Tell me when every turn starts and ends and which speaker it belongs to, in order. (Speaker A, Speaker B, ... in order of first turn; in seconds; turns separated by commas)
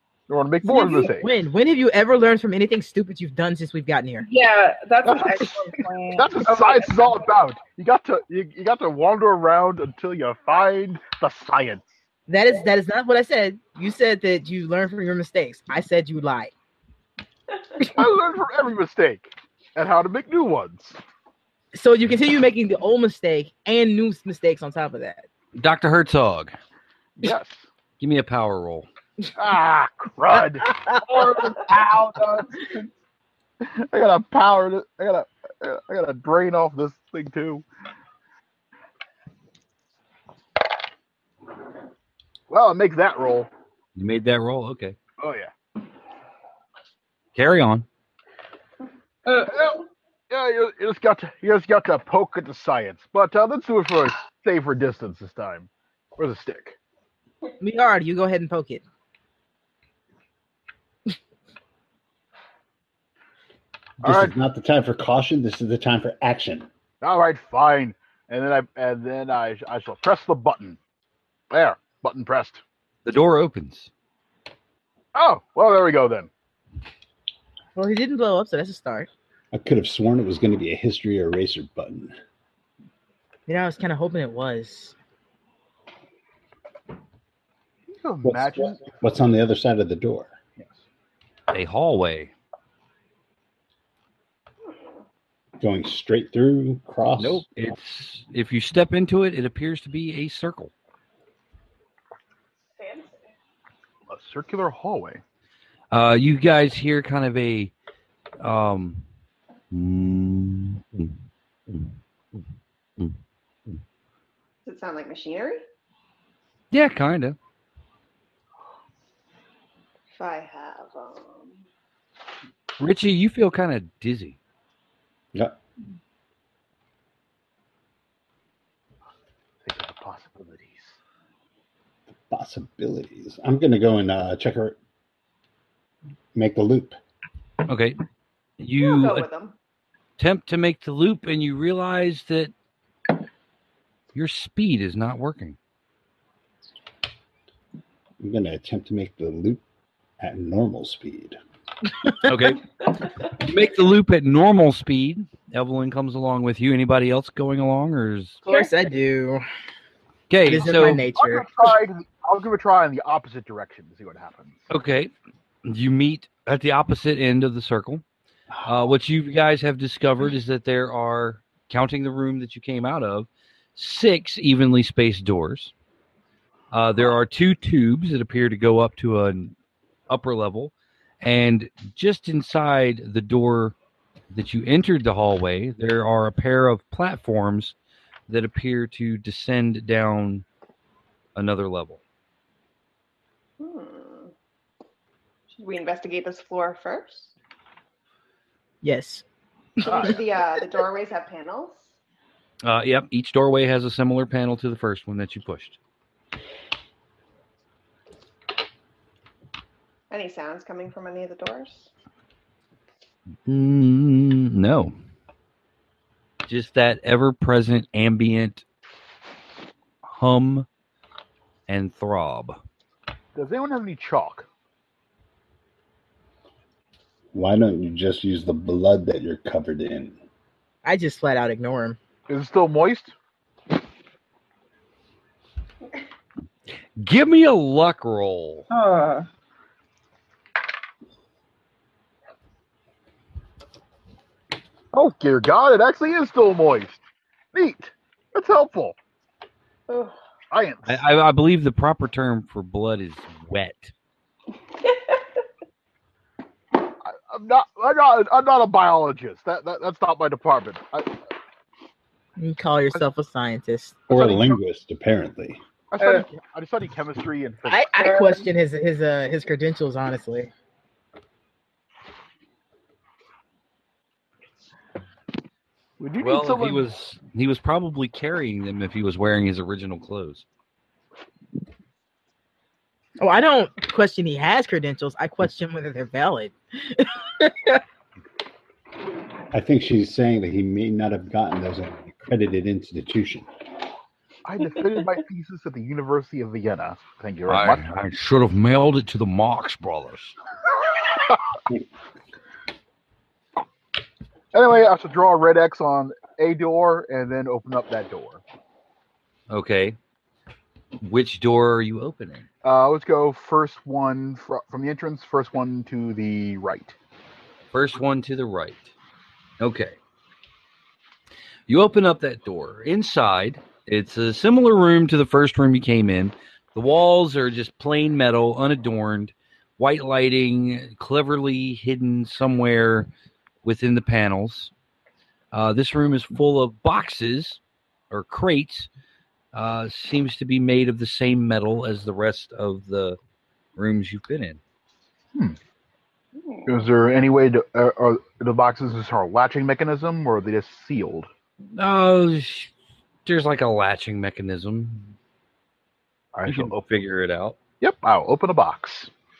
Speaker A: 0.3-1.3, Speaker B: 0.6-1.1, Speaker C: 1.1-4.3, Speaker B: 4.2-7.2, Speaker A: 5.0-11.9, Speaker C: 12.3-16.5, Speaker A: 17.9-21.0, Speaker C: 21.7-25.3, Speaker D: 25.6-26.5, Speaker A: 27.2-27.6, Speaker D: 28.0-28.9, Speaker A: 29.4-32.9, Speaker A: 33.6-37.6, Speaker A: 42.5-43.5, Speaker D: 44.0-45.0, Speaker A: 45.2-45.5, Speaker D: 47.3-47.9, Speaker B: 49.2-49.5, Speaker A: 49.4-56.8, Speaker C: 57.6-58.8, Speaker E: 64.0-66.7, Speaker A: 64.0-64.3, Speaker A: 67.0-70.8, Speaker A: 71.5-72.6, Speaker D: 73.0-73.9, Speaker A: 75.1-76.3, Speaker C: 77.8-79.1, Speaker E: 79.5-82.1, Speaker C: 83.5-84.9, Speaker A: 87.9-89.0, Speaker E: 88.2-90.3, Speaker D: 91.5-92.3, Speaker E: 95.6-97.4, Speaker D: 97.2-100.7, Speaker F: 102.7-103.3, Speaker A: 104.1-105.2, Speaker D: 105.9-107.7, Speaker D: 108.4-109.0, Speaker D: 109.7-111.2, Speaker D: 111.7-112.4, Speaker F: 114.6-115.6, Speaker D: 116.7-117.4, Speaker F: 120.1-121.6, Speaker D: 122.8-124.4, Speaker A: 129.6-130.9, Speaker E: 132.3-134.8, Speaker E: 136.3-137.0, Speaker D: 137.7-138.0, Speaker D: 138.6-139.2, Speaker F: 138.8-139.6, Speaker D: 140.2-142.5, Speaker D: 144.1-145.6, Speaker E: 148.2-149.6, Speaker E: 150.2-151.4, Speaker D: 152.2-152.7, Speaker D: 153.2-158.4, Speaker C: 158.5-159.4, Speaker D: 160.3-161.0, Speaker C: 160.4-161.6, Speaker A: 160.6-164.6, Speaker D: 164.7-165.1, Speaker D: 165.6-168.0, Speaker A: 168.5-168.9, Speaker D: 168.6-175.7, Speaker D: 176.7-179.5, Speaker D: 180.1-183.7, Speaker D: 184.3-187.7, Speaker D: 188.3-190.4, Speaker D: 191.3-192.0, Speaker F: 193.6-194.3, Speaker F: 195.5-197.3, Speaker C: 198.8-199.2, Speaker C: 199.8-200.1, Speaker A: 199.8-200.2, Speaker F: 199.8-201.9, Speaker D: 202.6-205.8, Speaker F: 210.1-211.9, Speaker D: 213.4-214.9, Speaker D: 216.5-218.6, Speaker D: 220.1-220.7, Speaker D: 221.7-222.6, Speaker A: 223.3-224.5, Speaker E: 227.3-230.2, Speaker C: 230.8-232.0, Speaker A: 232.3-233.1, Speaker D: 237.0-238.7, Speaker B: 238.7-239.2, Speaker A: 244.9-247.0, Speaker A: 247.5-248.9, Speaker F: 249.9-250.1, Speaker A: 250.5-251.0, Speaker D: 250.9-253.9, Speaker A: 257.0-261.2, Speaker C: 262.4-264.0, Speaker E: 264.1-265.6, Speaker A: 265.9-267.9, Speaker B: 266.0-266.3, Speaker C: 267.6-270.5, Speaker B: 268.0-268.4, Speaker A: 276.0-276.8, Speaker D: 276.2-280.4, Speaker C: 283.2-287.8, Speaker E: 289.5-293.5, Speaker A: 294.4-297.9, Speaker D: 297.5-300.4, Speaker A: 304.5-308.4, Speaker D: 309.5-310.0, Speaker D: 311.0-312.4, Speaker A: 312.6-316.9, Speaker D: 317.7-318.9, Speaker D: 319.6-319.9, Speaker D: 321.7-333.1, Speaker D: 333.6-334.7, Speaker D: 335.5-337.6, Speaker D: 338.1-338.9, Speaker D: 339.5-343.2, Speaker D: 343.8-344.6, Speaker F: 346.4-346.8, Speaker A: 346.6-351.3, Speaker D: 351.7-352.7, Speaker D: 353.2-355.1, Speaker A: 356.3-356.8, Speaker D: 356.4-357.6, Speaker A: 357.8-359.1